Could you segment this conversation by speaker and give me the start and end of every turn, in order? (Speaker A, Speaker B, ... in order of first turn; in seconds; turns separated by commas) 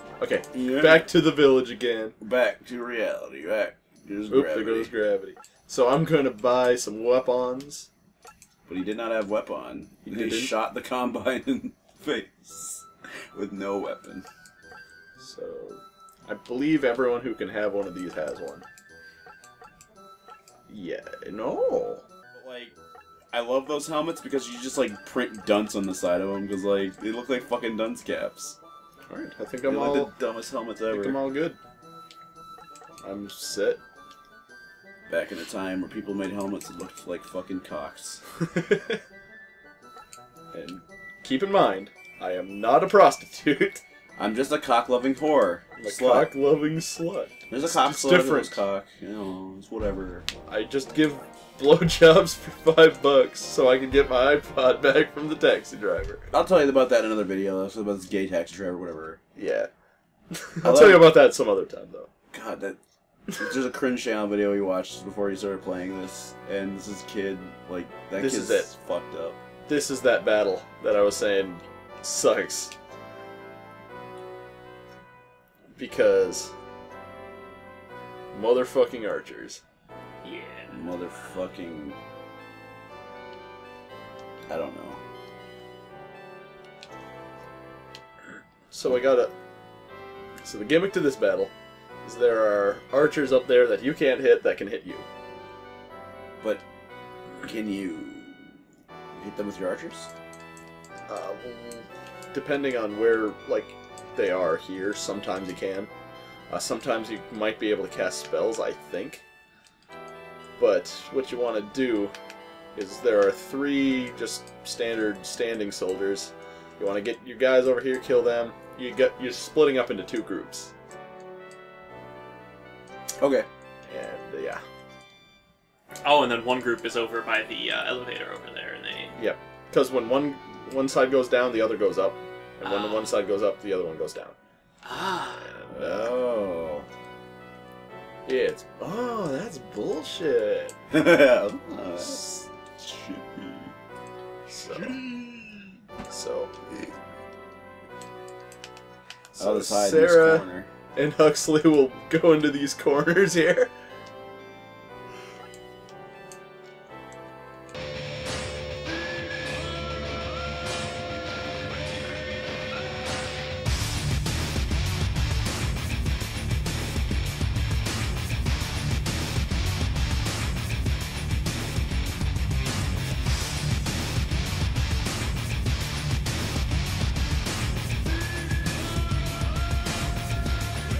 Speaker A: 0.2-2.1, Speaker B: 0.5-1.1, Speaker B: 2.2-4.9, Speaker A: 4.3-7.9, Speaker B: 8.7-14.3, Speaker A: 10.1-10.5, Speaker A: 15.2-18.6, Speaker A: 20.7-22.1, Speaker B: 22.3-22.8, Speaker B: 23.3-28.6, Speaker A: 29.1-30.1, Speaker B: 29.7-31.2, Speaker A: 30.9-31.6, Speaker A: 33.0-33.8, Speaker B: 35.1-38.2, Speaker A: 38.4-39.0, Speaker A: 40.5-43.8, Speaker B: 44.2-46.3, Speaker A: 45.8-48.6, Speaker B: 47.5-50.3, Speaker A: 50.5-56.2, Speaker B: 56.3-59.2, Speaker A: 59.4-59.7, Speaker A: 60.3-62.1, Speaker B: 60.6-61.1, Speaker B: 62.3-62.8, Speaker B: 63.3-69.4, Speaker A: 68.2-68.7, Speaker A: 69.7-72.7, Speaker A: 75.8-76.5, Speaker A: 78.3-79.6, Speaker C: 80.2-80.7, Speaker B: 80.7-82.0, Speaker B: 84.5-85.0, Speaker A: 88.7-89.3, Speaker A: 90.4-95.1, Speaker B: 97.5-98.6, Speaker B: 99.2-100.1, Speaker A: 101.1-105.9, Speaker A: 106.5-109.2, Speaker A: 110.6-112.1, Speaker A: 112.8-120.7, Speaker B: 123.2-123.5, Speaker A: 123.9-124.6, Speaker C: 126.0-129.2, Speaker A: 129.2-134.3, Speaker C: 132.6-133.1, Speaker C: 134.8-135.4, Speaker A: 135.4-136.1, Speaker B: 135.7-136.9, Speaker A: 138.3-140.8, Speaker B: 140.9-143.7, Speaker A: 144.5-144.9, Speaker B: 144.7-145.8, Speaker A: 146.1-146.5, Speaker A: 149.3-150.4, Speaker B: 149.4-150.7, Speaker A: 150.9-153.7